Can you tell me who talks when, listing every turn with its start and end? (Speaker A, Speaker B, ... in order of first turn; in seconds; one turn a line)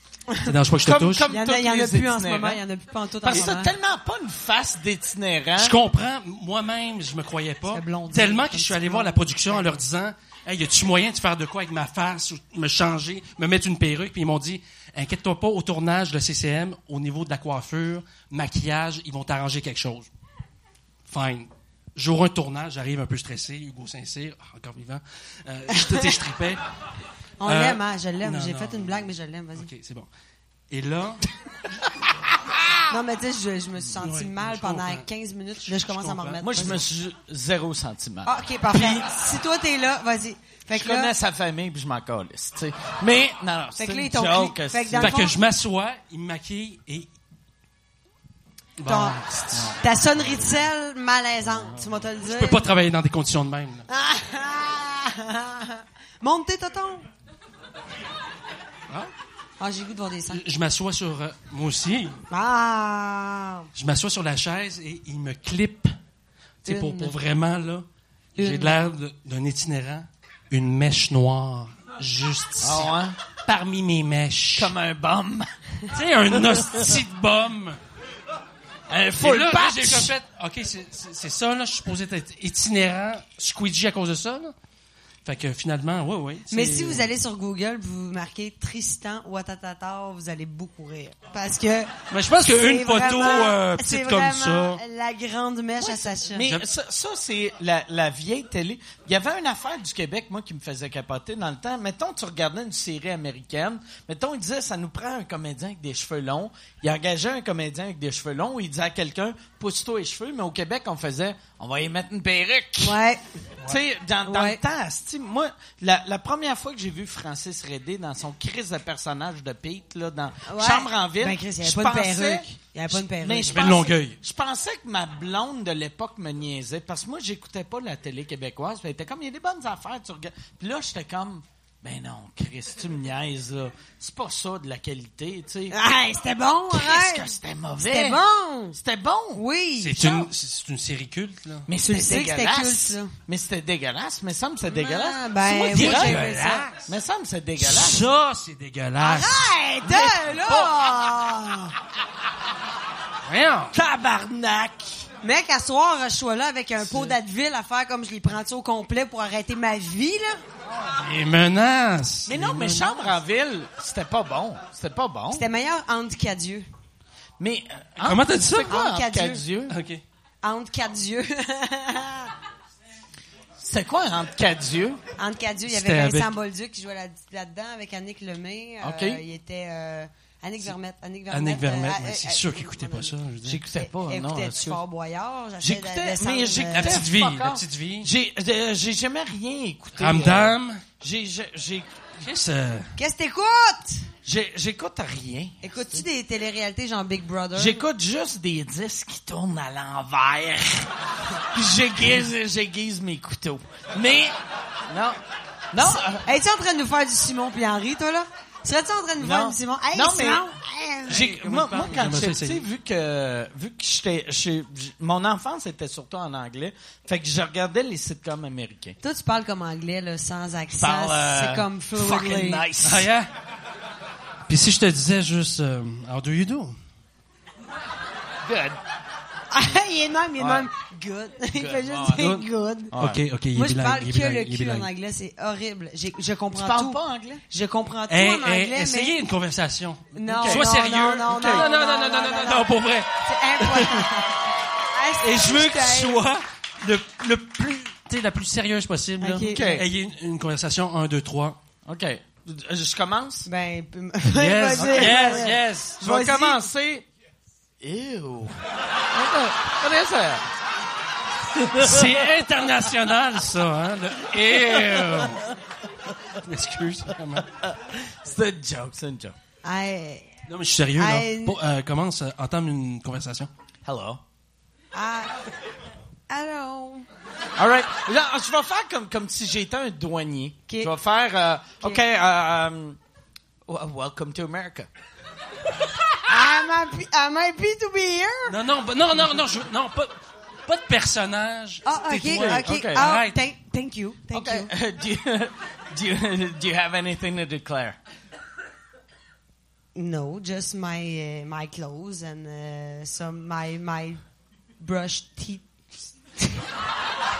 Speaker A: 0.5-1.3
Speaker B: 0.8-2.6
Speaker C: 1.3-3.7
Speaker B: 3.2-5.8
Speaker A: 5.6-20.1
Speaker C: 7.7-9.8
Speaker A: 21.1-26.6
Speaker C: 25.8-26.1
Speaker C: 27.4-29.7
Speaker A: 27.4-30.1
Speaker A: 30.7-31.3
Speaker C: 32.9-36.8
Speaker A: 34.0-35.0
Speaker A: 35.7-36.8
Speaker B: 36.4-39.0
Speaker C: 38.3-41.1
Speaker B: 40.7-45.3
Speaker C: 43.8-45.4
Speaker A: 45.0-47.1
Speaker A: 48.8-49.8
Speaker C: 48.9-52.6
Speaker A: 52.3-53.8
Speaker C: 53.9-57.0
Speaker C: 59.6-60.4
Speaker A: 60.3-62.2
Speaker C: 62.3-63.7
Speaker A: 63.8-66.0
Speaker A: 66.7-74.7
Speaker C: 66.7-67.2
Speaker C: 68.4-68.7
Speaker B: 72.6-73.2
Speaker B: 74.6-75.5
Speaker A: 75.9-77.8
Speaker B: 76.3-76.9
Speaker B: 78.9-80.1
Speaker A: 79.2-84.5
Speaker A: 85.2-87.1
Speaker C: 86.5-96.5
Speaker A: 92.1-94.8
Speaker B: 95.8-113.0
Speaker C: 112.8-113.2
Speaker B: 113.7-135.8
Speaker C: 114.2-114.6
Speaker C: 120.5-123.7
Speaker A: 123.5-124.2
Speaker C: 135.7-138.8
Speaker B: 136.7-138.2
Speaker B: 138.7-139.4
Speaker C: 139.3-140.3
Speaker A: 139.8-141.7
Speaker B: 141.7-148.0
Speaker C: 141.8-143.1
Speaker C: 144.7-146.8
Speaker A: 145.7-146.3
Speaker A: 147.6-149.5
Speaker C: 149.0-151.7
Speaker B: 149.8-151.1
Speaker A: 153.3-153.7
Speaker B: 153.7-155.1
Speaker C: 155.2-160.4
Speaker B: 156.8-157.1
Speaker A: 161.0-163.0
Speaker B: 162.3-165.4
Speaker C: 165.3-166.7
Speaker B: 167.4-169.8
Speaker A: 168.0-168.8
Speaker C: 168.7-169.4
Speaker A: 169.7-170.0
Speaker C: 170.4-172.3
Speaker B: 173.6-175.0
Speaker C: 175.2-183.2
Speaker A: 175.7-176.3
Speaker B: 178.8-179.2
Speaker A: 181.3-183.6
Speaker B: 183.4-184.8
Speaker C: 183.8-187.0
Speaker B: 185.6-191.9
Speaker A: 186.7-188.1
Speaker A: 190.0-190.8
Speaker A: 192.2-192.9
Speaker C: 193.0-194.1
Speaker B: 194.3-195.7
Speaker C: 195.6-197.8
Speaker B: 197.6-200.9
Speaker B: 201.5-204.4
Speaker B: 204.9-205.2
Speaker B: 205.7-206.2
Speaker C: 205.8-211.2
Speaker B: 209.2-210.5
Speaker A: 211.1-212.7
Speaker B: 211.1-219.0
Speaker C: 219.0-222.6
Speaker B: 220.8-223.1
Speaker A: 222.8-223.3
Speaker A: 224.5-226.8
Speaker B: 228.5-228.8
Speaker C: 229.5-232.9
Speaker B: 230.4-230.7
Speaker B: 231.6-232.3
Speaker A: 232.1-232.5
Speaker A: 233.0-234.9
Speaker C: 233.5-237.0
Speaker B: 236.5-237.4
Speaker C: 237.5-239.2
Speaker A: 238.1-244.1
Speaker C: 240.2-246.2
Speaker B: 240.3-240.7
Speaker B: 241.3-241.7
Speaker A: 245.2-251.6
Speaker C: 249.2-249.8
Speaker B: 249.5-249.9
Speaker B: 251.9-253.5
Speaker C: 253.5-256.7
Speaker A: 254.3-256.0
Speaker B: 254.8-257.1
Speaker B: 257.8-258.6
Speaker B: 259.1-260.4
Speaker B: 261.6-262.0
Speaker A: 261.8-265.5
Speaker B: 264.6-265.2
Speaker A: 266.4-267.5
Speaker B: 267.6-269.4
Speaker C: 269.6-270.3
Speaker A: 270.5-273.5
Speaker C: 271.0-271.6
Speaker B: 273.9-274.2
Speaker C: 274.9-275.3
Speaker C: 276.3-277.1
Speaker B: 277.6-283.0
Speaker B: 283.7-284.9
Speaker C: 286.3-288.6
Speaker A: 288.5-293.4
Speaker C: 291.8-294.7
Speaker B: 292.4-293.0
Speaker B: 294.3-298.0
Speaker C: 299.9-304.2
Speaker C: 304.8-306.6